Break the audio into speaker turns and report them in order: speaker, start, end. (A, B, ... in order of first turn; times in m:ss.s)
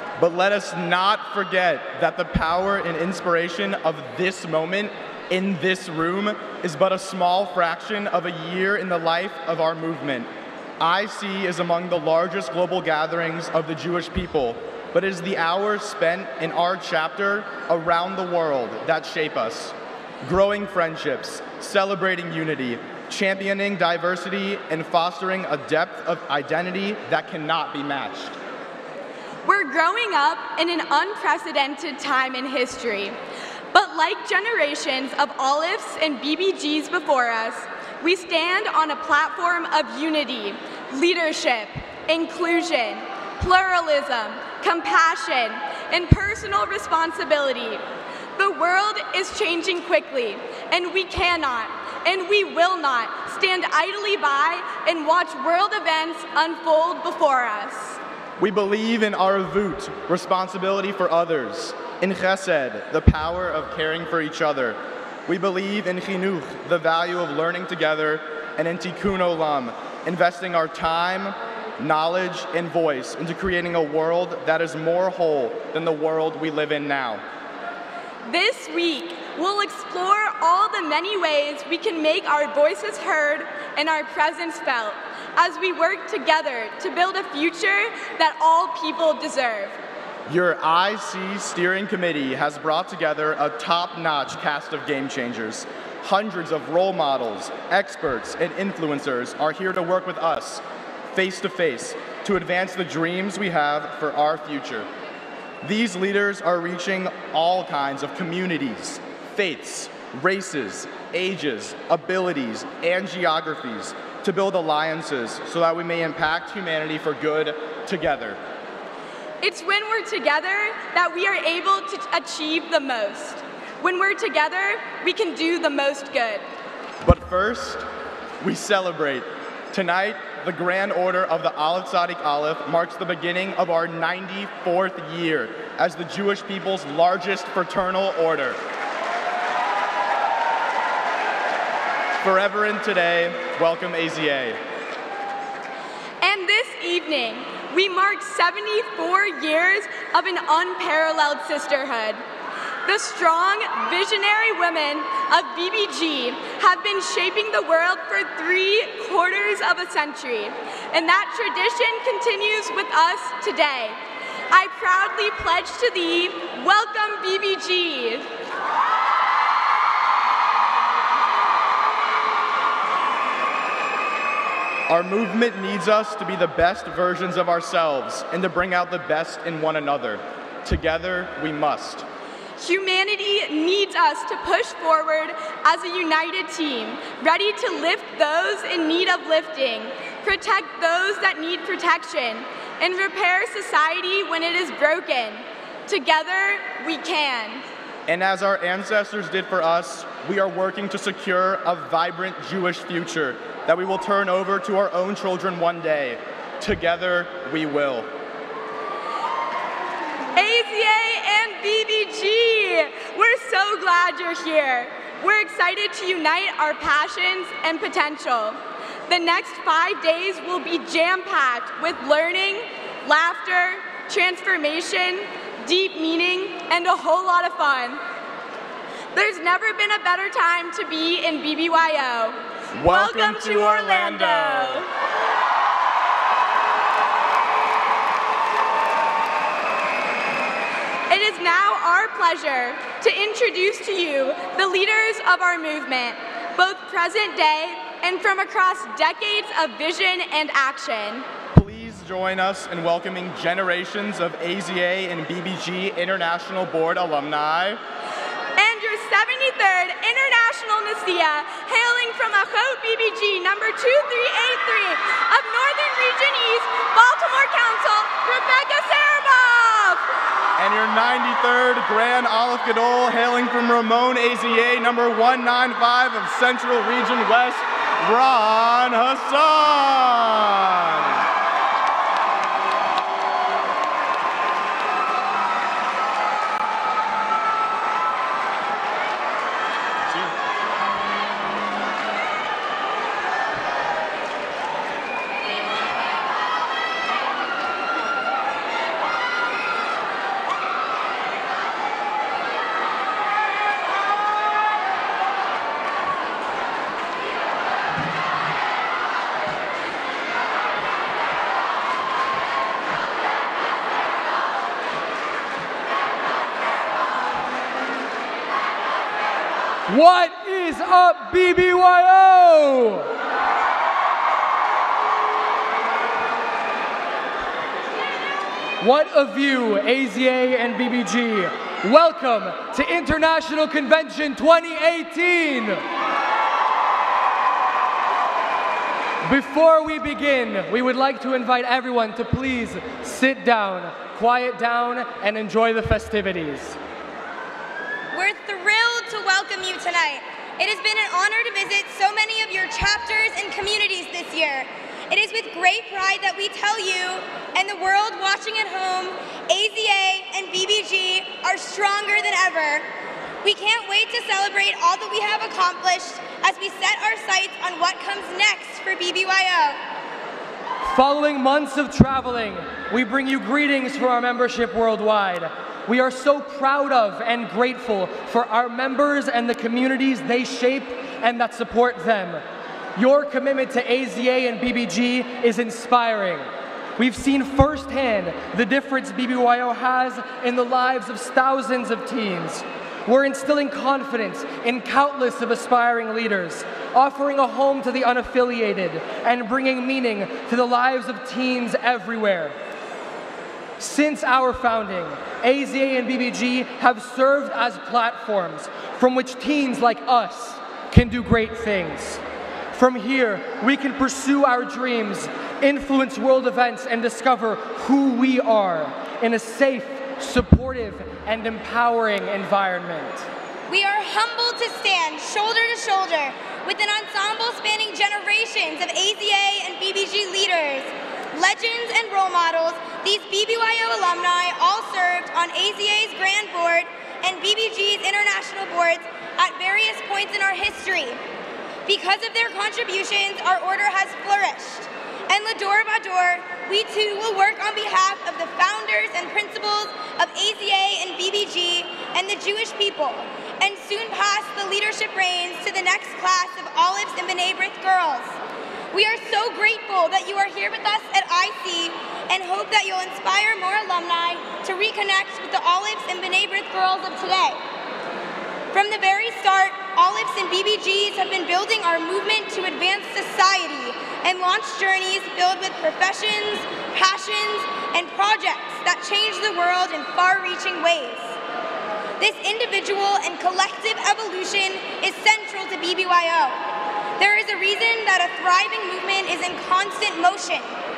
0:00.2-0:10.3 A
0:10.8-0:28.4 A
0:29.4-0:33.2 B
0:33.7-0:47.8 B
0:48.4-0:58.0 B
0:58.4-1:17.2 A
1:18.2-1:29.8 B
1:30.3-1:44.9 A
1:45.6-1:58.4 A
1:59.4-2:06.4 B
2:07.0-2:07.8 A
2:08.4-2:18.6 A
2:22.2-2:24.6 A
2:26.2-2:32.2 B
2:32.9-2:44.0 B
2:44.5-2:48.3 B
2:54.9-3:02.0 A
3:02.6-3:17.6 B
3:18.1-3:28.1 A
3:30.4-3:48.0 B
3:49.1-3:54.9 B
3:52.7-3:54.8 A
4:01.1-4:11.3 B
4:11.5-4:17.8 A
4:18.6-4:30.0 B
4:30.6-4:41.2 A
5:19.9-5:23.1 C
5:28.8-5:35.8 C
5:39.2-5:46.8 C
5:48.1-6:02.9 D
6:03.4-6:09.8 D
6:10.8-6:22.4 C
6:23.0-6:42.6 C
6:43.8-6:52.2 C
6:52.7-7:03.3 C
7:03.7-7:21.2 D
7:21.9-7:38.4 D
7:38.9-7:47.6 D
7:48.7-8:01.4 D
8:02.2-8:06.6 D
8:07.2-8:10.8 D